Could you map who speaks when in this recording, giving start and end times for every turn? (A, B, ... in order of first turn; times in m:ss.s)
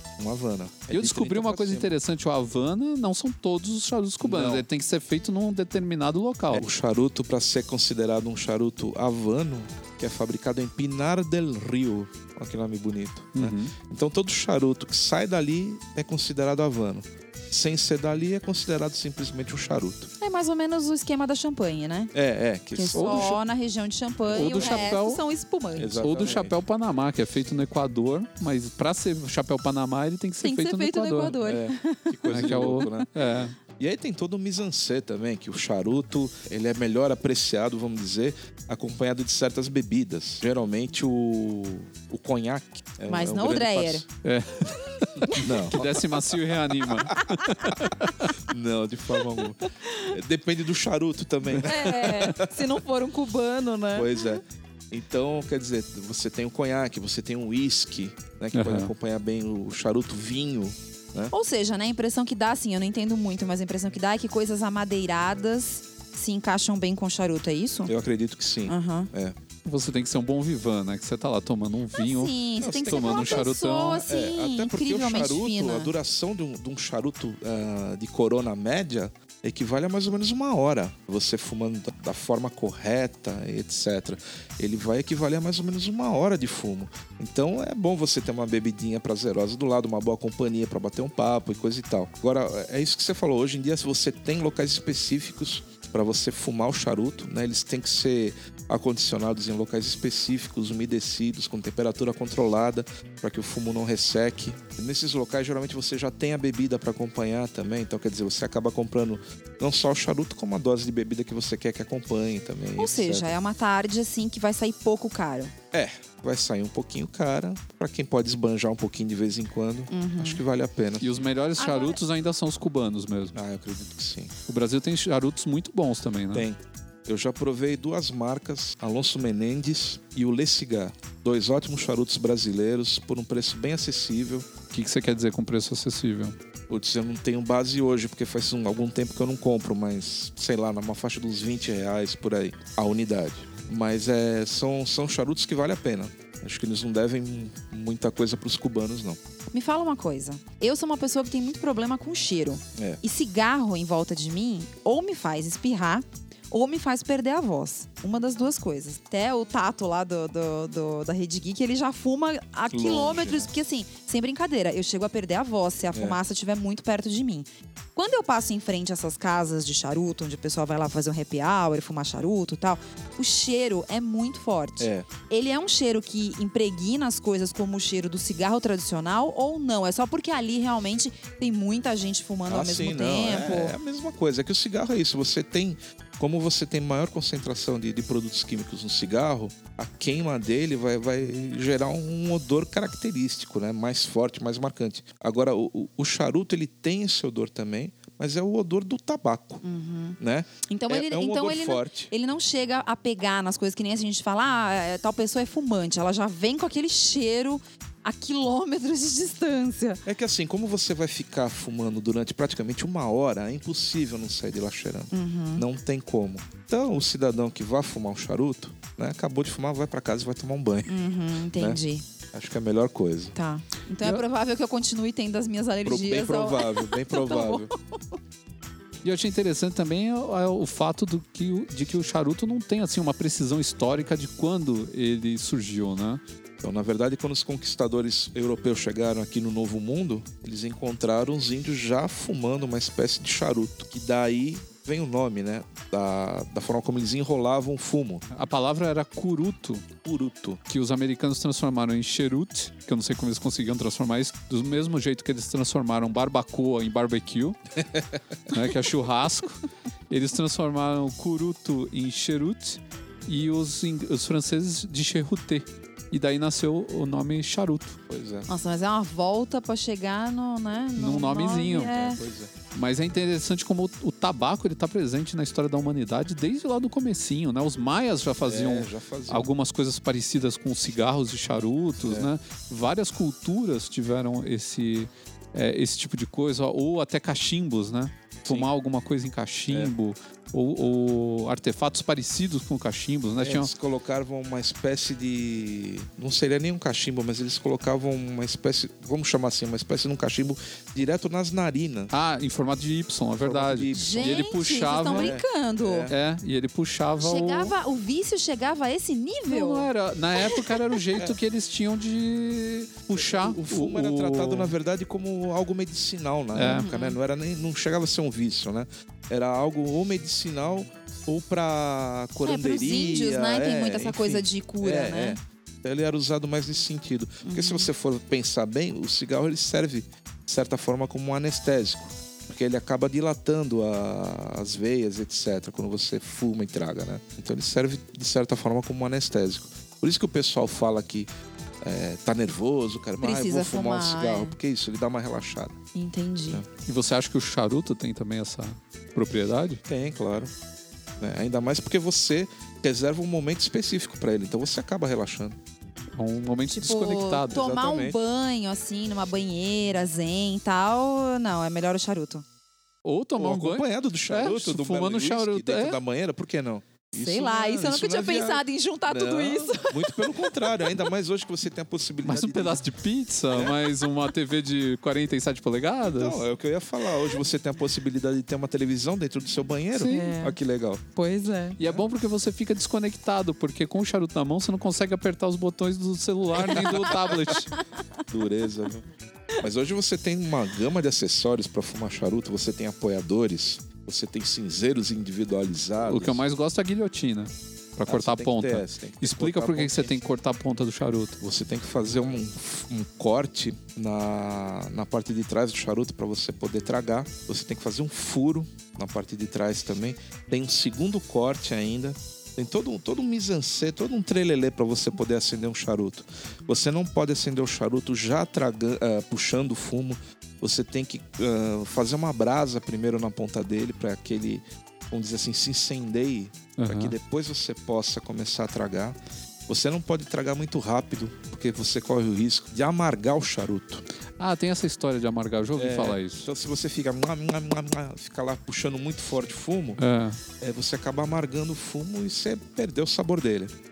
0:00.2-0:01.9 A
0:00.9-0:06.6 B
0:04.2-0:04.7 A
0:06.5-0:20.1 A
0:13.4-0:13.7 B
0:20.2-0:22.1 C
0:22.1-0:23.4 A
0:22.7-0:26.1 C
0:22.9-0:23.4 B
0:24.2-0:24.9 A
0:24.4-0:25.2 B
0:25.8-0:26.6 A
0:26.0-0:31.4 B
0:30.4-0:33.1 C
0:31.4-0:33.1 A
0:32.3-0:33.6 B
0:33.7-0:44.1 A
0:43.1-0:44.0 C
0:44.2-0:48.3 B
0:45.3-0:46.0 A
0:48.5-0:52.5 A
0:51.6-0:54.4 C
0:53.9-1:01.3 A
0:58.5-0:58.9 B
1:01.3-1:07.9 C
1:07.9-1:09.4 A
1:08.7-1:09.1 C
1:09.6-1:14.1 B
1:11.9-1:15.9 C
1:12.6-1:13.5 A
1:14.1-1:53.3 A
1:52.8-1:55.5 C
1:55.7-2:01.1 A
1:59.9-2:00.4 C
2:01.0-2:03.3 B
2:01.6-2:02.0 C
2:03.3-2:04.3 A
2:04.5-2:06.5 B
2:06.3-2:14.5 A
2:14.7-2:16.4 B
2:16.7-2:29.2 A
2:29.5-3:03.8 C
2:32.8-2:33.0 A
2:42.7-2:43.5 A
2:45.9-2:46.2 A
2:54.8-2:55.1 A
3:02.5-3:19.6 A
3:19.6-3:30.0 C
3:20.2-3:22.1 A
3:30.0-3:40.9 A
3:35.1-3:35.6 C
3:40.9-3:42.0 C
3:42.3-3:43.3 A
3:43.4-3:48.0 C
3:45.8-3:47.7 A
3:49.0-3:56.2 B
3:56.6-4:08.3 A
4:08.3-4:09.9 B
4:10.0-4:10.6 A
4:10.7-4:17.6 B
4:17.9-4:18.2 A
4:18.5-4:28.0 B
4:28.1-4:28.5 A
4:28.5-4:32.2 C
4:31.0-4:31.9 B
4:31.9-4:32.5 A
4:32.7-4:53.7 B
4:38.4-4:39.5 A
4:42.0-4:42.3 A
4:53.4-5:02.1 A
5:02.1-5:05.4 B
5:03.4-5:06.2 A
5:04.0-5:06.1 C
5:06.1-5:07.7 B
5:07.2-5:09.9 C
5:09.5-5:14.7 B
5:13.1-5:41.3 A
5:16.6-5:16.9 B
5:16.6-5:17.2 C
5:22.4-5:25.4 C
5:27.4-5:27.9 C
5:41.8-5:45.8 A
5:43.2-5:44.6 C
5:46.0-5:46.6 C
5:46.9-5:49.8 B
5:49.9-5:50.5 A
5:51.2-5:55.6 A
5:56.2-5:57.6 B
5:56.7-6:02.4 C
5:57.5-5:58.2 A
6:03.0-6:06.0 B
6:03.4-6:12.8 A
6:07.1-6:10.5 C
6:12.2-6:16.4 B
6:13.5-6:13.8 A
6:16.0-6:21.0 A
6:20.0-6:20.3 B
6:20.1-6:20.6 C
6:21.2-6:21.8 C
6:21.8-6:27.7 B
6:26.6-6:27.1 A
6:28.3-6:36.4 A
6:36.0-6:41.4 B
6:38.1-6:40.2 A
6:41.4-7:14.0 A
7:06.8-7:07.2 B
7:14.4-7:16.5 B
7:15.8-7:20.0 A
7:20.0-7:20.4 B
7:20.6-7:23.7 A